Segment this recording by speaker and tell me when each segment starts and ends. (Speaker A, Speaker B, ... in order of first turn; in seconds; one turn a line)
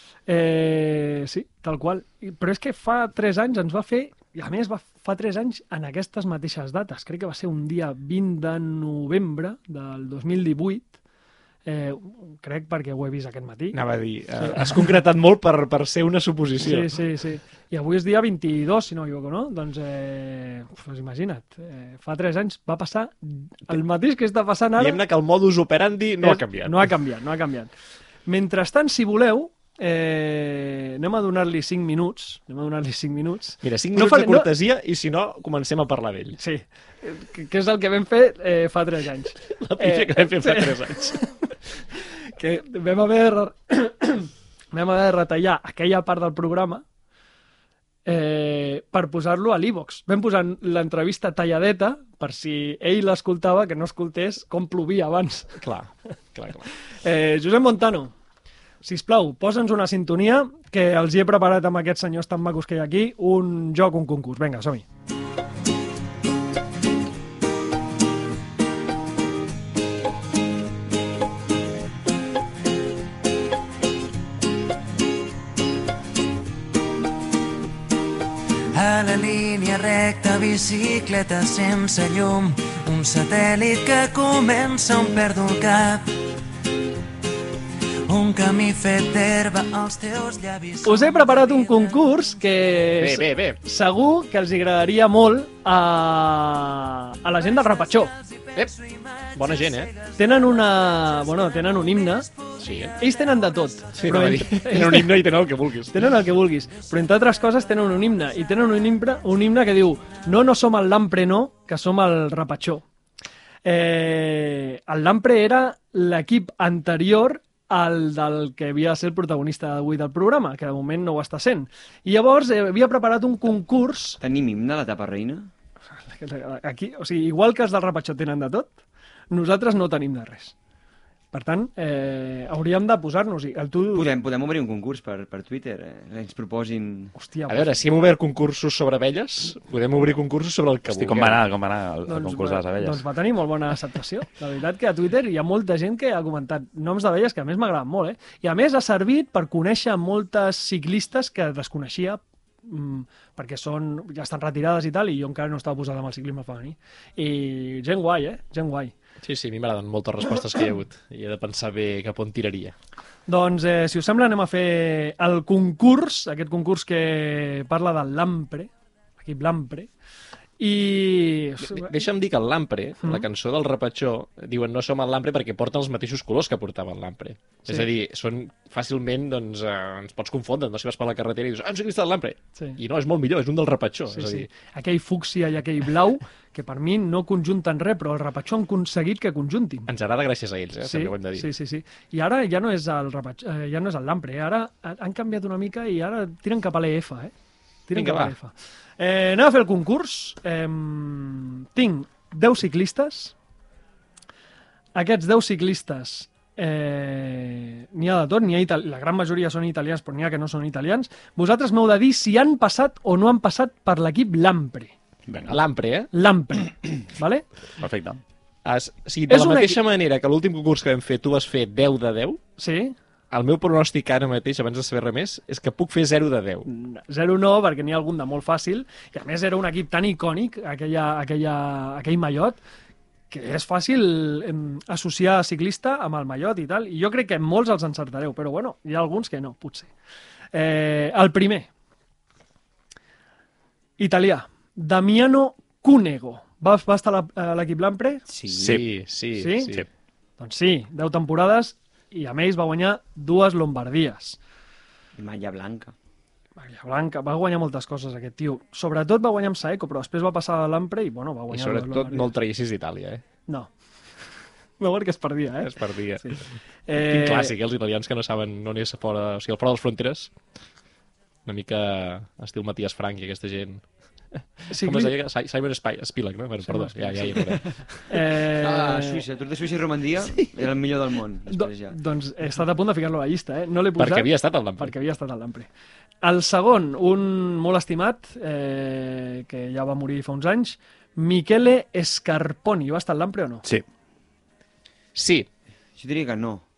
Speaker A: 0.3-11.0
Speaker A: 11.7-13.8
Speaker B: 13.7-17.0
Speaker A: 14.4-15.0
Speaker A: 16.6-25.0
Speaker B: 24.8-26.9
Speaker A: 26.2-27.7
Speaker A: 28.3-34.5
Speaker B: 33.6-36.4
Speaker A: 36.4-46.8
Speaker B: 39.5-41.2
Speaker A: 48.1-55.6
Speaker B: 55.6-56.7
Speaker A: 56.7-58.1
Speaker A: 58.8-64.8
Speaker C: 78.7-86.1
Speaker C: 88.1-91.6
Speaker A: 90.8-98.1
Speaker B: 93.0-93.6
Speaker C: 98.8-99.4
Speaker B: 99.3-99.9
Speaker A: 100.2-102.3
Speaker B: 102.6-103.0
Speaker A: 103.0-105.3
Speaker B: 103.9-106.1
Speaker A: 105.9-112.9
Speaker A: 113.6-124.2
Speaker D: 124.2-125.5
Speaker A: 125.9-128.8
Speaker A: 129.3-130.6
Speaker A: 131.3-134.1
Speaker D: 133.9-137.1
Speaker A: 137.2-137.8
Speaker B: 137.5-141.4
Speaker E: 140.9-143.1
Speaker A: 142.1-158.9
Speaker B: 159.2-162.8
Speaker A: 163.3-169.9
Speaker A: 170.6-172.0
Speaker B: 171.6-184.5
Speaker A: 184.1-189.9
Speaker B: 189.9-191.5
Speaker A: 190.8-197.3
Speaker A: 197.9-203.3
Speaker B: 197.9-198.3
Speaker A: 204.9-214.9
Speaker E: 215.3-215.6
Speaker B: 215.5-216.1
Speaker A: 216.1-217.5
Speaker E: 217.8-218.2
Speaker B: 218.7-222.4
Speaker A: 219.3-219.8
Speaker A: 222.6-222.9
Speaker B: 223.3-226.7
Speaker A: 226.7-232.6
Speaker A: 233.3-239.9
Speaker A: 240.5-241.7
Speaker A: 244.0-248.2
Speaker D: 248.3-248.8
Speaker E: 248.5-248.9
Speaker B: 248.5-249.8
Speaker A: 249.3-249.7
Speaker A: 250.4-254.4
Speaker D: 255.2-255.9
Speaker A: 256.6-262.3
Speaker B: 261.5-263.2
Speaker A: 263.5-264.2
Speaker A: 264.8-267.5
Speaker B: 265.6-270.4
Speaker B: 271.5-278.1
Speaker A: 274.7-275.1
Speaker A: 276.6-279.2
Speaker D: 278.5-282.0
Speaker A: 281.5-285.7
Speaker B: 284.0-284.9
Speaker A: 286.2-293.6
Speaker B: 295.1-295.5
Speaker D: 296.0-296.6